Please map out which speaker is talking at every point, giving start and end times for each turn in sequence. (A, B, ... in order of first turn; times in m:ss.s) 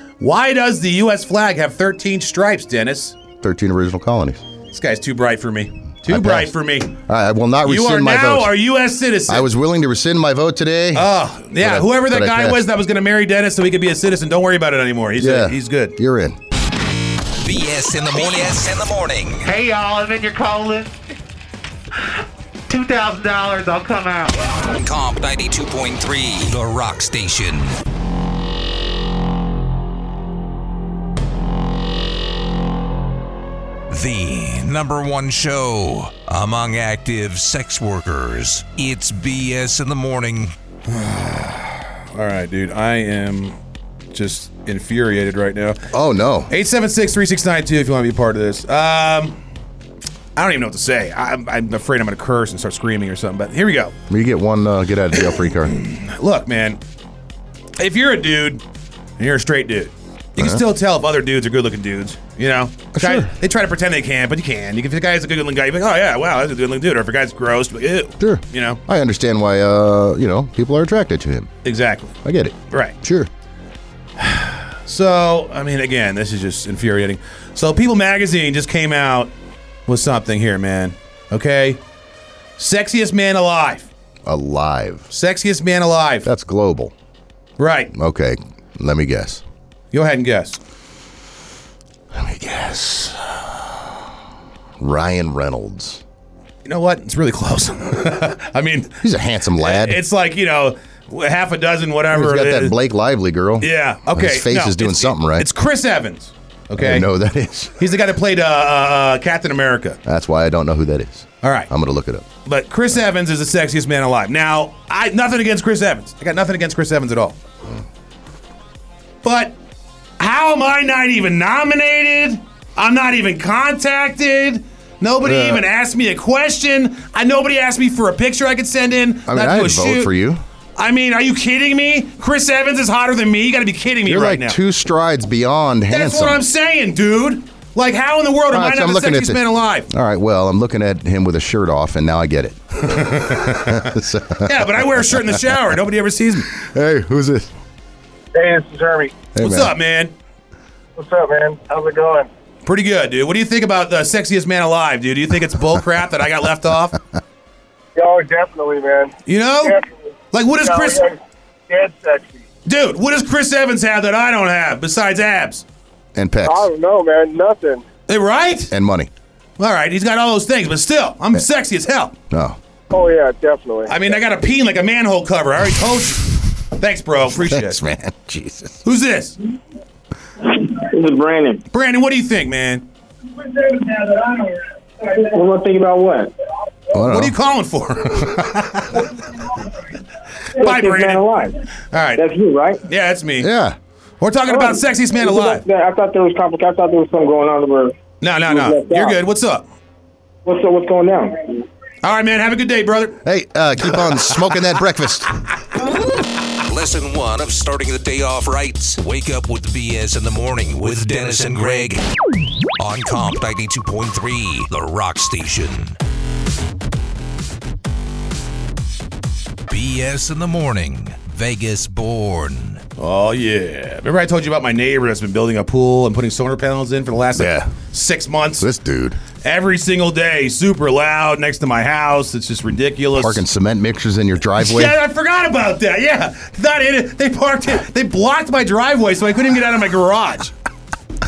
0:00.2-0:03.2 A
0:03.4-0:04.4 B
0:04.7-0:06.9 A
0:06.1-0:08.5 B
0:07.6-0:09.5 A
0:09.3-0:11.1 B
0:10.9-0:15.9 A
0:11.6-0:12.6 B
0:15.2-0:16.4 B
0:17.4-0:19.5 C
0:19.5-0:20.9 D
0:22.7-0:24.3 D
0:24.7-0:27.8 C
0:33.9-0:40.5 C
0:40.9-0:43.6 A
0:44.1-0:45.8 A
0:45.9-0:46.5 B
0:46.5-0:49.4 A
0:50.4-0:53.9 A
0:54.1-0:55.7 B
0:55.7-0:56.8 A
0:57.8-0:58.6 A
0:59.2-1:08.8 A
1:00.4-1:00.6 B
1:02.9-1:03.3 B
1:08.2-1:11.5 B
1:11.6-1:12.2 A
1:12.2-1:13.3 B
1:12.7-1:13.0 A
1:14.2-1:19.3 A
1:19.9-1:21.8 A
1:22.6-1:23.9 A
1:24.2-1:25.1 B
1:25.1-1:26.3 A
1:26.2-1:26.9 B
1:27.6-1:27.9 A
1:27.9-1:29.4 B
1:29.9-1:30.6 A
1:32.1-1:34.0 B
1:34.8-1:36.0 B
1:36.6-1:39.0 A
1:39.0-1:40.0 B
1:39.6-1:42.7 A
1:42.1-1:45.5 B
1:43.6-1:47.1 A
1:46.8-1:47.8 B
1:47.8-1:50.0 A
1:50.0-1:52.3 B
1:51.4-1:51.7 A
1:52.4-1:57.4 A
1:59.2-1:59.6 A
2:00.2-2:10.1 A
2:05.2-2:05.6 B
2:09.3-2:10.4 B
2:10.8-2:14.6 A
2:14.0-2:16.4 B
2:15.9-2:19.9 A
2:18.5-2:25.5 B
2:22.8-2:26.5 A
2:26.5-2:27.5 B
2:28.3-2:29.3 E
2:29.3-2:29.7 B
2:29.4-2:30.1 A
2:31.0-2:32.3 E
2:32.6-2:37.0 A
2:38.0-2:39.9 E
2:39.2-2:39.8 A
2:40.3-2:41.1 A
2:40.6-2:41.2 E
2:41.7-2:42.4 E
2:42.6-2:45.6 A
2:46.1-2:46.7 B
2:46.4-2:47.8 E
2:48.1-2:48.7 A
2:48.7-2:49.1 B
2:49.6-2:52.1 A
2:52.3-2:52.6 B
2:52.9-2:54.2 E
2:53.9-2:57.8 A
2:57.3-2:58.8 B
2:58.8-2:59.4 A
3:00.5-3:01.6 F
3:01.7-3:02.8 A
3:03.6-3:06.3 F
3:06.9-3:07.3 B
3:07.0-3:09.0 A
3:10.6-3:11.5 F
3:10.6-3:11.2 A
3:11.9-3:12.3 A
3:12.2-3:12.8 F
3:12.9-3:13.5 A
3:13.4-3:13.8 B
3:14.2-3:15.6 A
3:14.5-3:18.0 F
3:18.2-3:19.6 A
3:18.5-3:19.2 F
3:20.4-3:21.6 F
3:22.0-3:23.2 A
3:23.2-3:25.3 B
3:23.8-3:24.4 A
3:26.7-3:32.0 C
3:32.8-3:36.0 C
3:39.7-3:42.8 C
3:43.0-3:48.7 A
3:47.3-3:47.7 B
3:48.6-3:49.2 B
3:49.4-3:53.4 A
3:53.1-3:55.0 B
3:54.6-4:00.5 A